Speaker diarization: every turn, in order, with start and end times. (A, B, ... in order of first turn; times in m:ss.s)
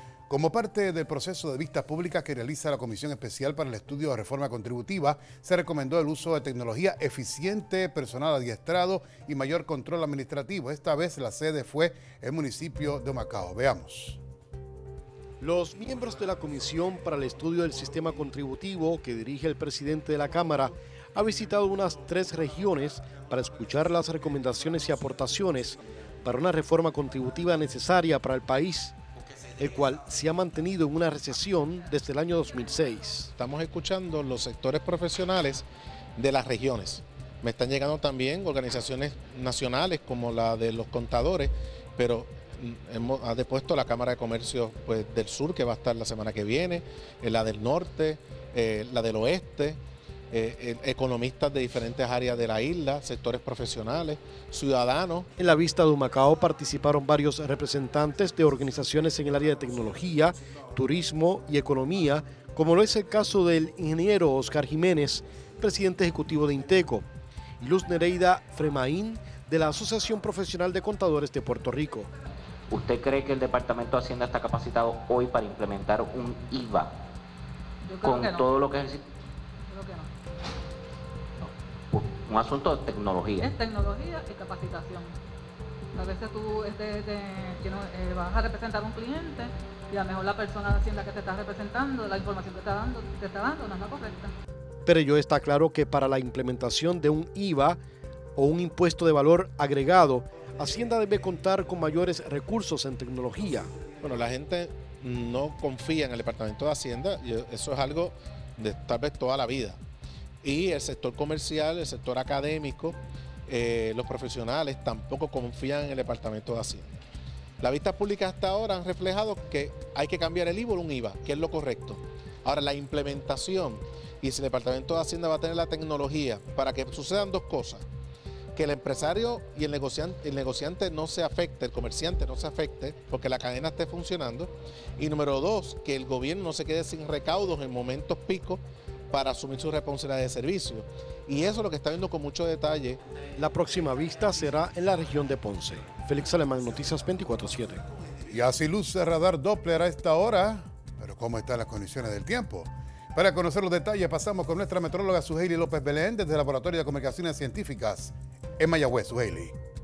0:00.3-0:14.2 A
0:15.4-0:29.0 B
0:29.6-0:33.3 B
0:33.4-0:49.8 C
0:50.3-0:55.3 C
0:55.4-1:07.0 B
1:07.6-1:12.1 B
1:12.7-1:16.9 D
1:17.8-1:18.5 E
1:18.0-1:19.0 D
1:19.7-1:20.1 E
1:21.4-1:23.5 D
1:23.4-1:25.1 E
1:25.9-1:34.3 E
1:34.8-1:37.8 B
1:38.4-1:43.7 B
1:44.0-1:49.8 C
1:50.4-1:53.0 C
1:53.5-1:57.0 C
1:57.6-2:07.8 C
2:08.5-2:23.0 C
2:23.4-2:27.8 B
2:28.3-2:39.5 A